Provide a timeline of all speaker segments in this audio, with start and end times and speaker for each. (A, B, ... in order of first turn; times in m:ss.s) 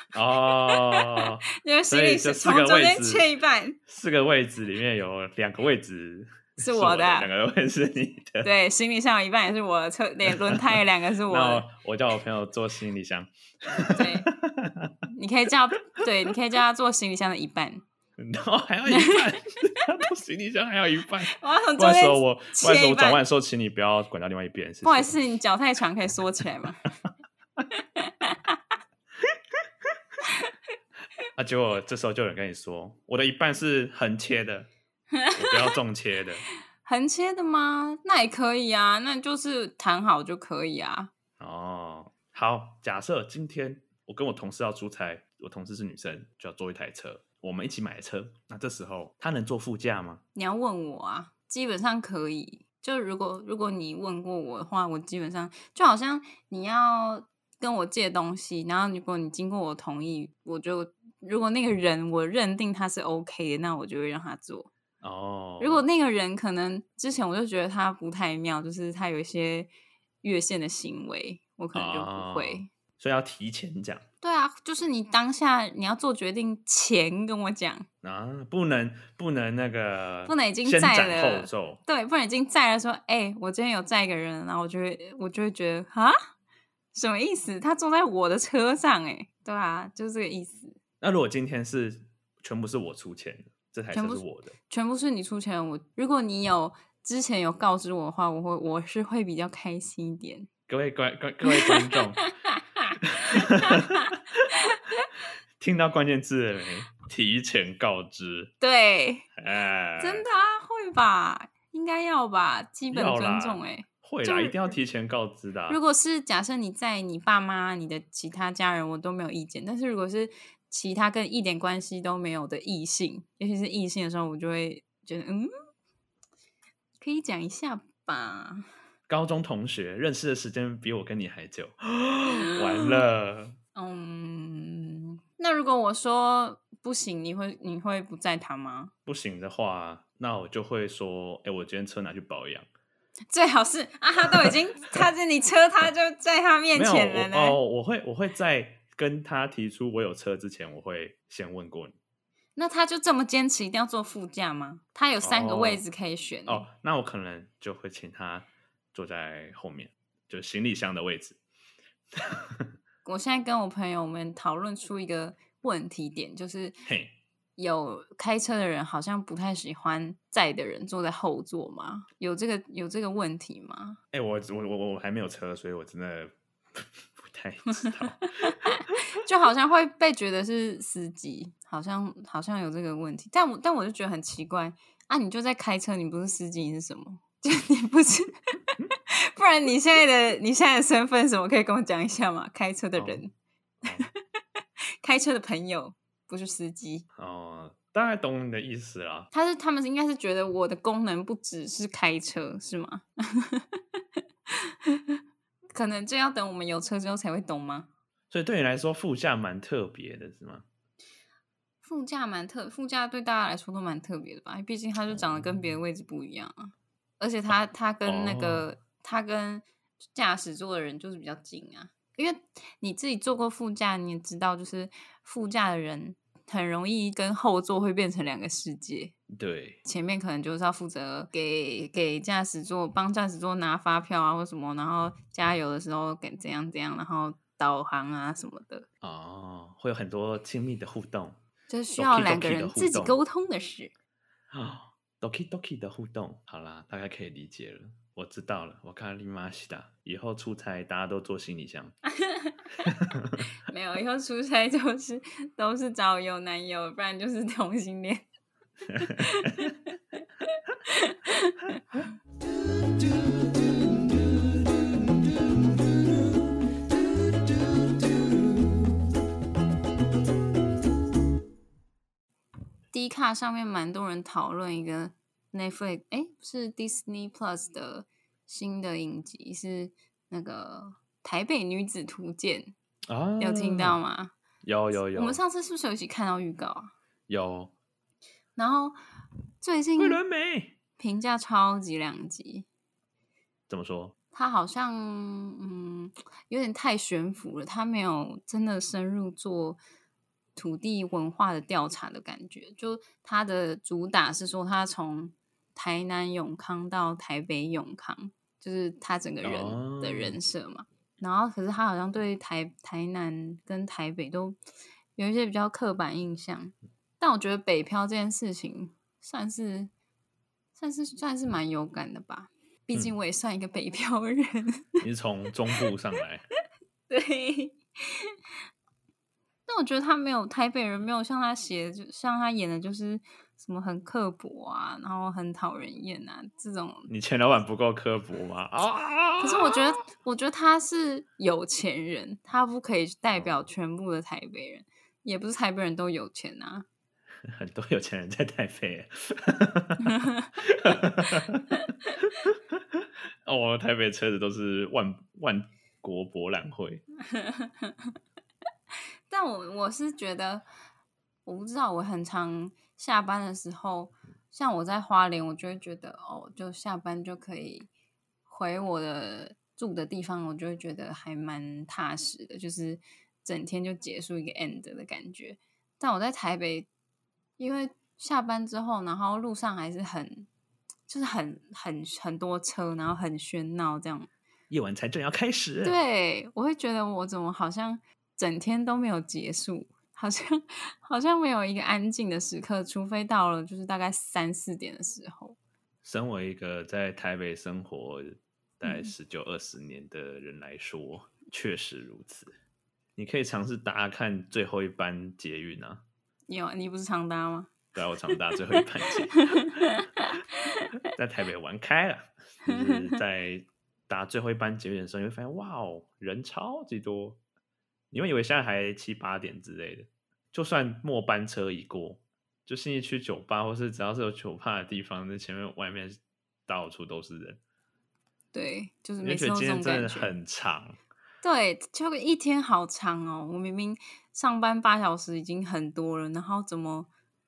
0:00.1-0:03.3 A
0:00.5-0:03.8 B
0:03.9-0:08.5 A
0:06.6-0:07.3 B
0:08.4-0:11.7 B
0:10.3-0:14.9 A
0:13.8-0:14.3 B
0:15.1-0:17.8 B
0:18.2-0:25.2 A
0:18.9-0:19.4 B
0:21.3-0:23.2 B
0:24.8-0:26.8 B
0:27.7-0:28.6 B
0:30.2-0:30.5 B
0:31.4-0:34.7 A
0:35.1-0:35.8 B
0:35.3-0:36.4 A
0:36.8-0:41.1 B
0:41.4-0:50.2 A
0:50.3-1:04.7 B
1:05.0-1:05.8 A
1:05.6-1:09.7 B
1:10.2-1:12.7 B
1:11.7-1:14.0 A
1:14.2-1:17.9 B
1:18.0-1:21.8 A
1:20.3-1:26.2 B
1:26.9-1:30.8 B
1:31.0-1:34.5 A
1:33.9-1:40.5 B
1:40.7-1:42.2 A
1:41.4-1:45.0 B
1:43.0-1:44.5 A
1:45.6-1:48.5 A
1:48.6-1:49.3 B
1:49.4-1:50.2 A
1:50.0-1:54.7 B
1:52.9-1:55.8 A
1:55.7-2:05.5 B
2:07.0-2:08.7 B
2:09.1-2:13.6 A
2:12.3-2:13.0 B
2:13.7-2:18.9 B
2:19.0-2:22.7 A
2:23.3-2:27.6 B
2:24.3-2:25.0 A
2:26.7-2:31.9 A
2:32.6-2:36.7 B
2:35.2-2:35.8 A
2:36.5-2:41.4 A
2:42.2-2:42.7 A
2:43.0-2:46.8 B
2:46.8-2:47.1 A
2:47.6-2:54.0 B
2:54.1-2:59.0 A
2:58.4-3:13.3 B
3:13.0-3:13.2 A
3:13.8-3:14.1 A
3:13.9-3:14.2 B
3:15.0-3:17.0 B
3:17.2-3:19.3 A
3:19.3-3:25.2 B
3:25.7-3:27.9 B
3:28.3-3:30.6 A
3:31.8-3:49.1 B
3:35.1-3:35.6 A
3:38.0-3:38.7 A
3:49.3-3:49.8 A
3:49.8-3:58.8 B
3:59.0-4:01.4 A
4:01.7-4:03.9 B
4:02.0-4:03.2 A
4:04.5-4:11.9 A
4:12.2-4:12.7 B
4:12.8-4:13.4 A
4:13.7-4:18.2 B
4:18.9-4:19.7 A
4:19.0-4:19.9 B
4:20.4-4:21.8 B
4:32.9-4:42.7 B
4:43.1-4:44.0 A
4:43.4-4:44.3 B
4:44.6-4:45.4 A
4:45.0-4:46.9 B
4:47.3-4:47.7 A
4:48.6-4:49.0 B
4:49.6-4:50.2 B
4:50.0-4:50.8 A
4:51.0-4:52.6 B
4:53.7-4:54.1 A
4:54.3-4:59.8 B
5:00.6-5:14.6 B
5:09.4-5:10.4 A
5:15.2-5:19.9 B
5:20.8-5:25.0 B
5:25.0-5:26.4 A
5:27.1-5:28.4 B
5:29.7-5:37.1 B
5:37.1-5:39.9 A
5:39.4-5:46.8 B
5:47.5-5:57.0 A
5:50.0-5:50.5 B
5:57.2-5:58.1 B
5:59.3-6:00.6 B
6:01.4-6:07.9 B
6:08.5-6:16.9 B
6:17.6-6:20.5 B
6:21.1-6:24.3 B
6:24.7-6:26.0 A
6:25.8-6:35.6 B
6:36.0-6:42.5 A
6:38.8-6:39.1 B
6:43.2-6:46.0 A
6:46.5-6:47.8 B
6:47.9-6:49.9 A
6:49.4-6:50.8 B
6:51.0-6:57.4 A
6:52.7-6:53.0 B
6:58.1-7:07.6 A
7:08.5-7:10.3 B
7:09.2-7:11.0 A
7:11.4-7:17.1 B